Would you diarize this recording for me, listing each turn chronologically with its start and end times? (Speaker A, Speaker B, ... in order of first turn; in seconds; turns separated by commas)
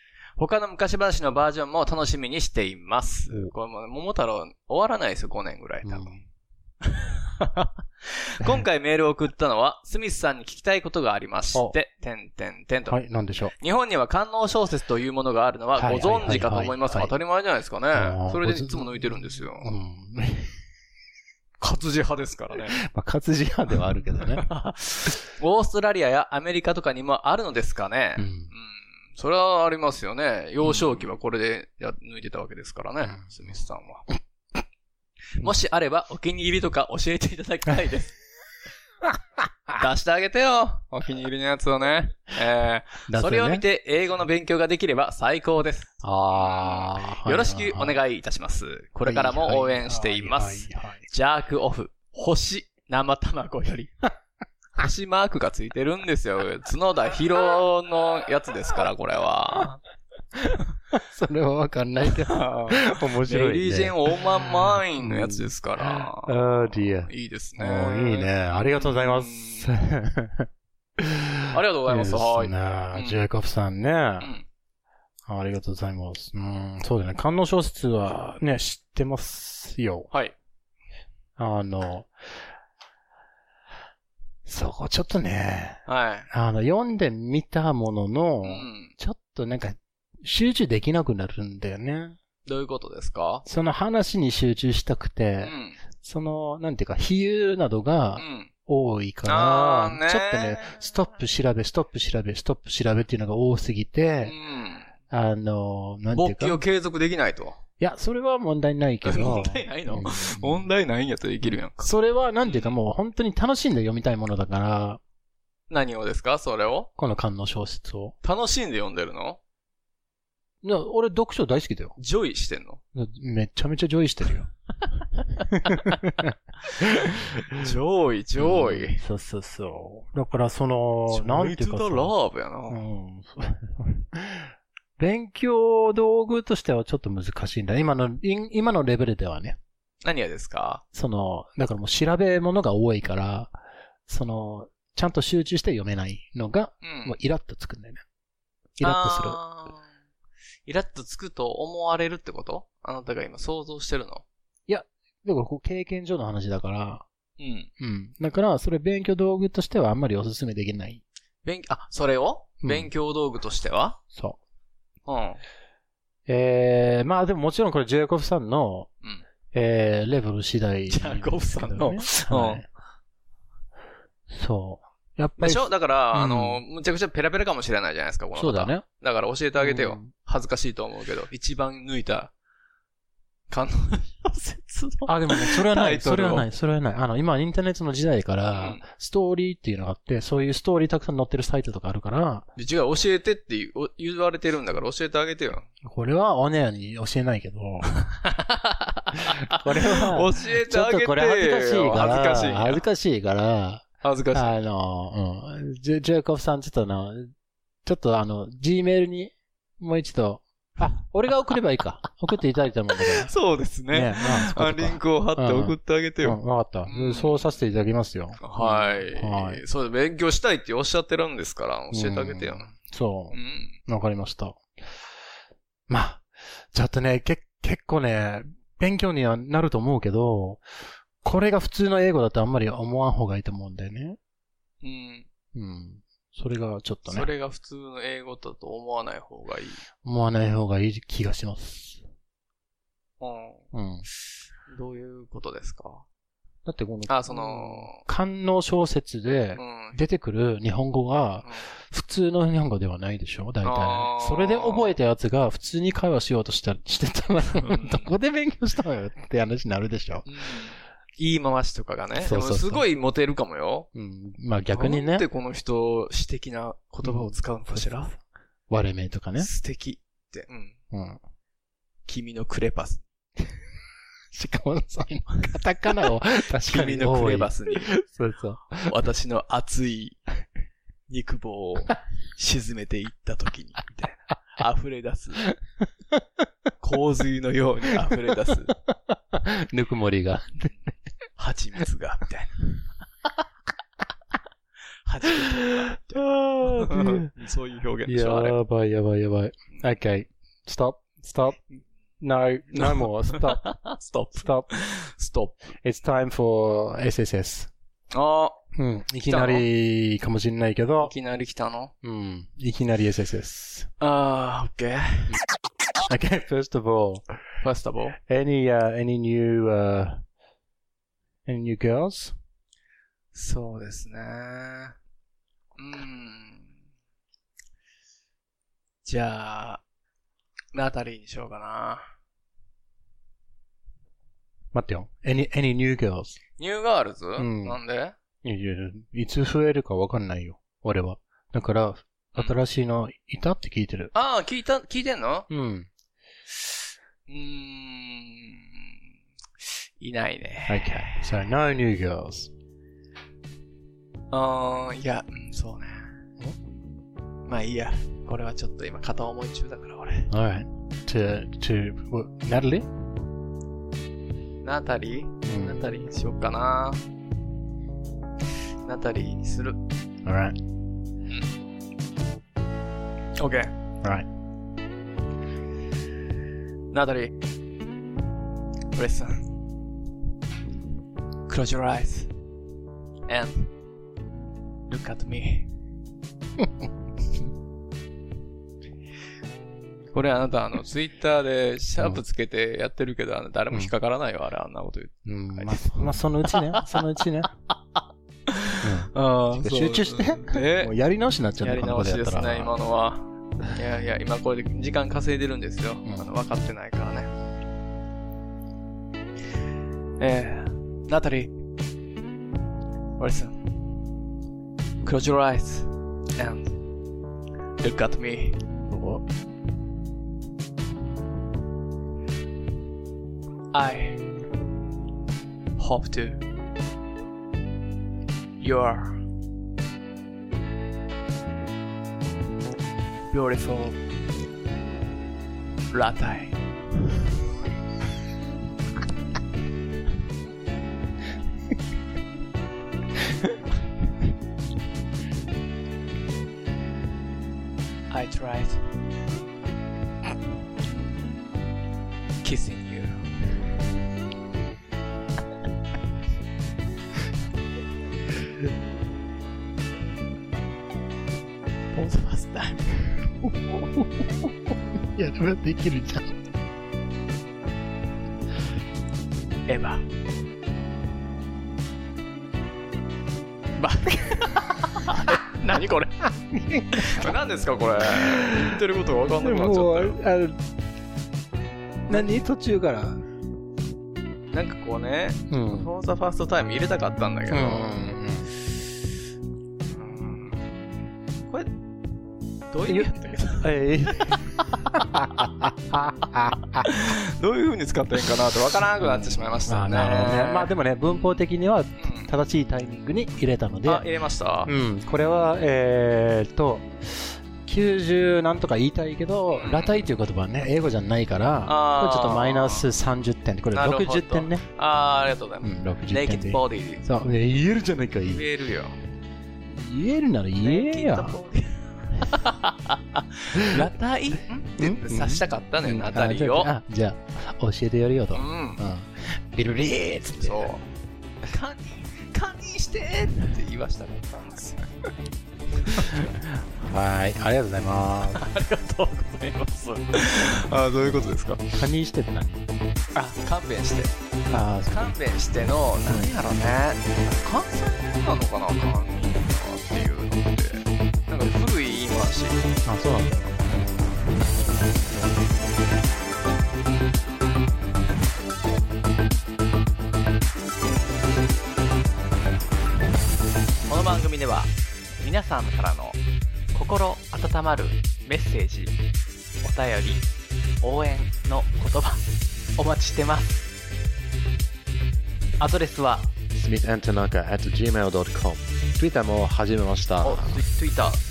Speaker A: 0.4-6.2, Speaker B: 5.8-6.2, Speaker A: 6.8-13.0, Speaker B: 12.9-13.5, Speaker A: 13.6-19.7, Speaker B: 15.8-17.1, Speaker B: 17.9-19.0, Speaker B: 19.6-20.5, Speaker A: 21.6-22.8, Speaker B: 22.7-24.4, Speaker A: 24.2-34.0, Speaker B: 28.2-28.5, Speaker B: 30.6-31.0, Speaker B: 33.0-33.5, Speaker A: 35.4-38.1, Speaker A: 39.8-53.9, Speaker B: 43.1-43.6, Speaker B: 46.0-48.0, Speaker B: 49.0-51.0, Speaker A: 54.8-59.8, Speaker B: 60.4-70.5, Speaker A: 62.1-69.7, Speaker B: 71.0-74.3, Speaker A: 71.5-73.2, Speaker A: 74.2-74.5, Speaker B: 75.3-80.1, Speaker A: 80.1-80.3, Speaker B: 81.4-82.1, Speaker B: 84.4-92.2, Speaker A: 85.8-86.3, Speaker A: 88.4-88.9, Speaker A: 92.4-93.4, Speaker B: 93.4-104.3, Speaker A: 95.4-95.8, Speaker A: 98.2-98.5, Speaker A: 99.2-100.9, Speaker A: 104.2-104.9, Speaker B: 105.1-106.6, Speaker A: 106.1-107.6, Speaker B: 107.8-110.6, Speaker A: 109.0-111.9, Speaker B: 111.4-115.0, Speaker A: 112.4-112.8, Speaker A: 115.7-116.9, Speaker B: 117.0-118.1, Speaker A: 118.2-119.4, Speaker B: 120.6-122.0, Speaker A: 122.0-122.8, Speaker B: 122.9-124.5, Speaker B: 125.5-127.7, Speaker A: 127.5-129.0, Speaker B: 128.4-132.1, Speaker A: 131.1-132.8, Speaker B: 132.7-139.6, Speaker A: 140.0-140.8, Speaker B: 140.9-143.6, Speaker B: 144.1-148.0, Speaker A: 146.8-147.2, Speaker B: 148.8-149.4, Speaker A: 148.8-149.8, Speaker A: 150.7-154.2, Speaker B: 154.7-157.0, Speaker A: 157.4-157.7, Speaker B: 157.8-161.0, Speaker A: 161.4-164.0, Speaker B: 162.6-162.9, Speaker B: 164.1-164.4, Speaker A: 165.1-165.4, Speaker B: 166.3-168.9, Speaker B: 169.5-172.7, Speaker A: 170.9-172.6, Speaker B: 174.3-176.6, Speaker A: 175.4-182.3, Speaker B: 178.3-178.8, Speaker B: 179.6-180.1, Speaker A: 183.5-186.4, Speaker B: 185.1-192.5, Speaker A: 188.6-188.8, Speaker A: 192.6-195.7, Speaker B: 195.8-197.9, Speaker A: 198.1-202.8, Speaker B: 199.5-207.3, Speaker A: 204.0-204.5, Speaker B: 207.8-213.3, Speaker A: 213.1-217.5, Speaker B: 213.9-219.6, Speaker A: 218.4-222.7, Speaker B: 221.9-224.6, Speaker A: 223.3-223.8, Speaker B: 225.9-230.6, Speaker B: 231.2-234.2, Speaker A: 234.8-235.3, Speaker B: 235.5-237.3, Speaker A: 237.1-239.8, Speaker B: 240.0-242.0, Speaker A: 243.2-243.6, Speaker B: 243.7-244.0, Speaker A: 244.7-246.0, Speaker B: 246.7-260.3, Speaker A: 247.1-248.0, Speaker A: 249.6-250.0, Speaker A: 253.6-254.9, Speaker A: 257.6-258.1, Speaker A: 260.2-263.9, Speaker B: 262.2-262.8, Speaker B: 263.9-265.2, Speaker A: 264.7-268.1, Speaker B: 267.0-268.2, Speaker B: 268.7-269.5, Speaker A: 269.4-270.8, Speaker B: 270.9-271.2, Speaker A: 272.1-273.0, Speaker B: 274.3-278.9, Speaker A: 276.6-277.9, Speaker A: 278.9-280.2, Speaker A: 281.1-285.5, Speaker A: 286.8-288.8, Speaker B: 289.1-290.7, Speaker A: 290.6-292.8, Speaker A: 295.1-298.6, Speaker B: 296.1-297.3, Speaker B: 298.1-301.6, Speaker B: 302.2-303.6, Speaker A: 302.7-305.6, Speaker B: 304.3-304.7, Speaker B: 305.8-307.7, Speaker A: 308.1-308.6, Speaker B: 308.7-311.1, Speaker A: 309.2-309.6, Speaker A: 311.0-311.9, Speaker B: 312.0-313.9, Speaker A: 314.0-315.3, Speaker B: 316.1-317.2, Speaker A: 317.6-318.2, Speaker B: 318.2-320.2, Speaker B: 321.4-322.3, Speaker A: 323.3-324.9, Speaker A: 325.8-326.7, Speaker A: 329.0-329.8, Speaker A: 330.7-332.1, Speaker B: 334.7-336.4, Speaker A: 336.6-338.1, Speaker B: 337.4-337.8, Speaker B: 338.4-344.1, Speaker A: 344.1-345.5, Speaker B: 345.5-345.9, Speaker A: 347.3-348.7, Speaker A: 350.0-351.4, Speaker B: 350.7-352.5, Speaker A: 354.3-356.1, Speaker A: 357.5-360.3, Speaker B: 360.3-362.9, Speaker A: 364.6-367.0, Speaker B: 365.4-365.9, Speaker A: 368.8-369.8, Speaker B: 370.2-370.6, Speaker A: 373.4-373.7, Speaker A: 376.9-377.3, Speaker A: 378.9-379.5, Speaker A: 381.5-382.3, Speaker A: 383.3-383.7, Speaker A: 384.9-385.7, Speaker A: 390.1-397.1, Speaker B: 395.2-397.5, Speaker A: 398.5-400.9, Speaker B: 398.8-402.7, Speaker A: 401.6-407.3, Speaker B: 406.0-406.3, Speaker A: 410.2-411.5, Speaker A: 413.2-413.6, Speaker A: 415.0-416.8, Speaker A: 417.8-418.6, Speaker B: 418.9-419.2, Speaker A: 423.7-424.2, Speaker A: 425.8-426.4, Speaker A: 428.6-429.2, Speaker A: 433.3-434.0, Speaker A: 435.9-436.6, Speaker A: 448.1-448.8, Speaker A: 452.4-453.2, Speaker A: 461.9-463.0, Speaker B: 463.4-464.5, Speaker B: 465.1-466.3, Speaker A: 469.7-470.0, Speaker A: 473.8-476.2, Speaker B: 476.5-477.3, Speaker A: 476.9-480.2, Speaker B: 478.0-478.8, Speaker B: 479.4-480.6, Speaker B: 482.1-483.2, Speaker A: 484.5-488.2, Speaker B: 485.5-485.9, Speaker B: 487.5-488.5, Speaker A: 489.9-490.6, Speaker A: 492.7-494.4, Speaker B: 492.9-496.9, Speaker A: 496.8-501.3, Speaker B: 499.0-504.0, Speaker A: 502.0-502.3, Speaker A: 503.8-504.7, Speaker B: 504.6-514.6, Speaker A: 509.5-510.0, Speaker A: 511.6-512.9, Speaker A: 513.7-517.0, Speaker B: 515.6-518.4, Speaker A: 518.3-519.0, Speaker B: 519.8-521.4, Speaker A: 520.6-526.7, Speaker B: 523.5-523.8, Speaker B: 524.8-530.7, Speaker A: 528.3-528.8, Speaker A: 530.4-530.8, Speaker A: 531.5-534.8, Speaker B: 536.0-538.4, Speaker A: 538.3-541.7, Speaker B: 541.7-542.6, Speaker A: 543.1-544.1, Speaker B: 544.5-545.1, Speaker A: 544.9-552.6, Speaker B: 546.0-546.3, Speaker B: 552.8-554.2, Speaker A: 563.9-566.2, Speaker A: 566.7-569.0, Speaker A: 569.6-570.3, Speaker A: 570.8-572.2, Speaker A: 572.8-573.7, Speaker A: 575.6-576.3, Speaker C: 576.5-580.6, Speaker A: 580.2-581.2